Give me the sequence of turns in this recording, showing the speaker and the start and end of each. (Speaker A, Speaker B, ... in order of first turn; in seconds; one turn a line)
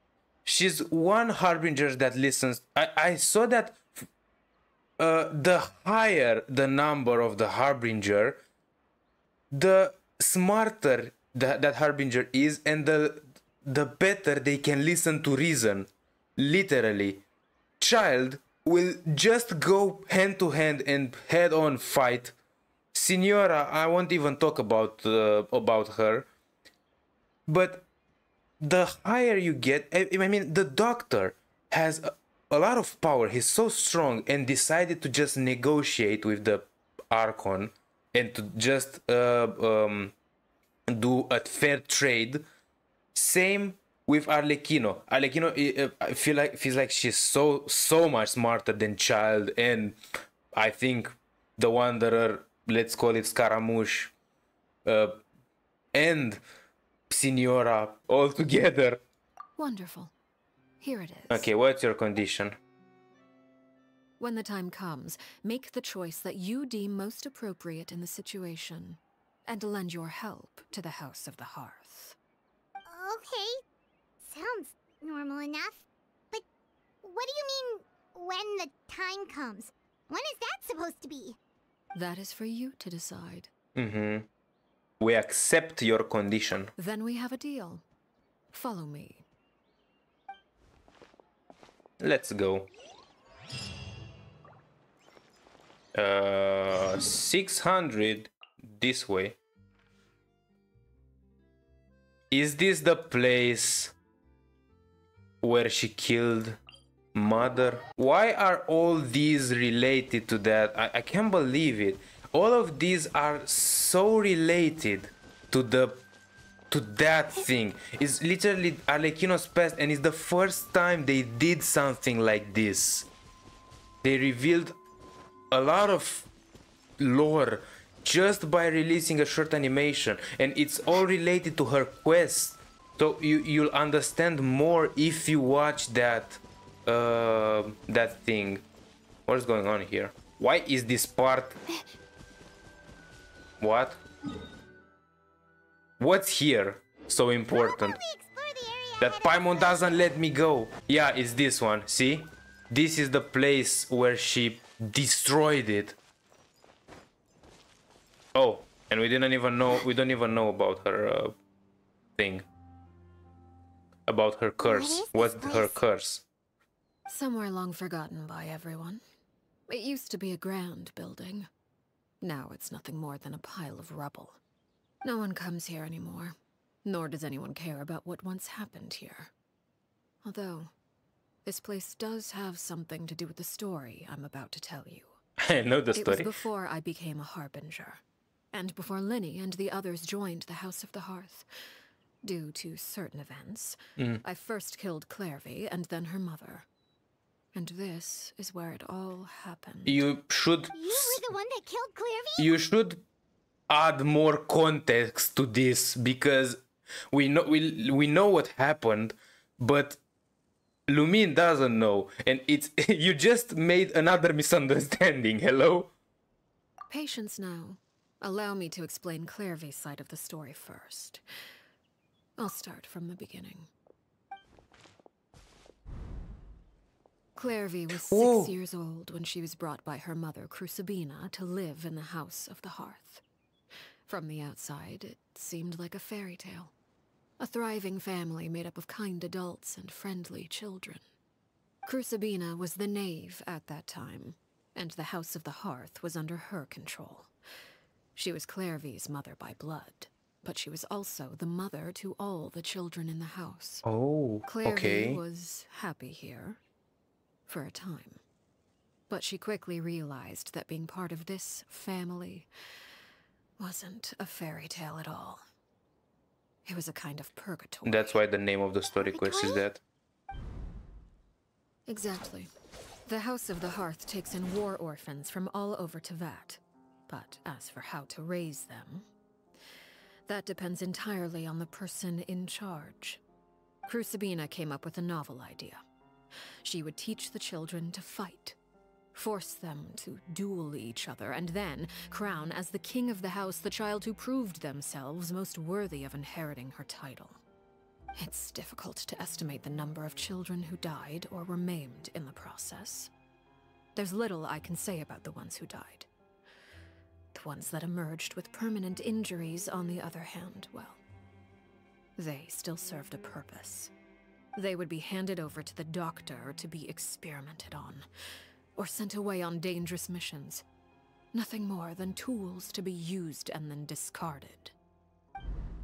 Speaker A: 0.4-4.1
Speaker A: 5.0-8.4
Speaker A: 9.5-17.2
Speaker A: 17.8-22.3
Speaker A: 22.9-26.3
Speaker A: 27.5-27.9
Speaker A: 28.6-40.1
Speaker A: 40.9-42.5
Speaker A: 43.1-50.0
Speaker A: 50.5-54.1
Speaker A: 54.8-55.2
Speaker A: 55.9-56.4
Speaker A: 57.1-59.0
Speaker B: 59.6-60.1
Speaker B: 60.8-61.5
Speaker A: 61.3-62.6
Speaker B: 64.2-72.2
Speaker C: 72.9-73.6
Speaker C: 74.2-76.4
Speaker C: 77.0-81.4
Speaker B: 81.9-83.5
Speaker A: 83.7-84.3
Speaker A: 85.0-86.7
Speaker B: 86.8-87.8
Speaker B: 88.5-89.2
Speaker A: 92.0-92.7
Speaker A: 95.9-99.3
Speaker A: 102.3-103.9
Speaker A: 105.4-106.6
Speaker A: 107.1-116.0
Speaker A: 116.7-123.1
Speaker A: 124.0-124.8
Speaker A: 125.5-126.3
Speaker A: 127.0-138.6
Speaker A: 139.3-141.6
Speaker A: 143.6-144.0
Speaker A: 146.0-148.0
Speaker C: 147.5-150.0
Speaker A: 149.0-155.9
Speaker A: 158.3-161.4
Speaker A: 162.2-162.4
Speaker A: 164.1-166.2
Speaker C: 164.6-165.8
Speaker B: 167.1-169.0
Speaker B: 169.7-171.5
Speaker B: 172.2-174.4
Speaker B: 175.0-179.3
Speaker B: 180.2-180.7
Speaker B: 181.4-185.2
Speaker A: 185.4-186.3
Speaker B: 185.9-188.0
Speaker B: 188.5-191.5
Speaker B: 192.2-196.7
Speaker B: 197.5-200.0
Speaker A: 199.8-201.3
Speaker C: 200.7-202.6
Speaker A: 202.4-203.0
Speaker A: 203.7-210.0
Speaker A: 210.9-215.9
Speaker B: 216.9-221.2
Speaker B: 222.4-223.7
Speaker B: 227.3-233.2
Speaker A: 227.9-228.5
Speaker B: 234.1-236.7
Speaker B: 237.4-241.0
Speaker B: 241.8-247.3
Speaker B: 248.2-253.8
Speaker A: 253.8-255.2
Speaker B: 254.4-256.6
Speaker B: 257.5-258.2
Speaker B: 259.1-262.5
Speaker B: 263.6-265.4
Speaker B: 266.6-268.1
Speaker A: 267.8-269.8
Speaker C: 268.9-269.6
Speaker B: 271.9-272.5
Speaker B: 273.1-279.1
Speaker B: 280.3-283.2
Speaker B: 283.9-285.8
Speaker B: 286.6-288.6
Speaker B: 289.1-297.4
Speaker B: 298.2-303.1
Speaker B: 303.9-306.1
Speaker B: 307.3-311.0
Speaker B: 312.2-313.9
Speaker B: 314.6-318.1
Speaker B: 318.8-320.6
Speaker B: 321.3-324.7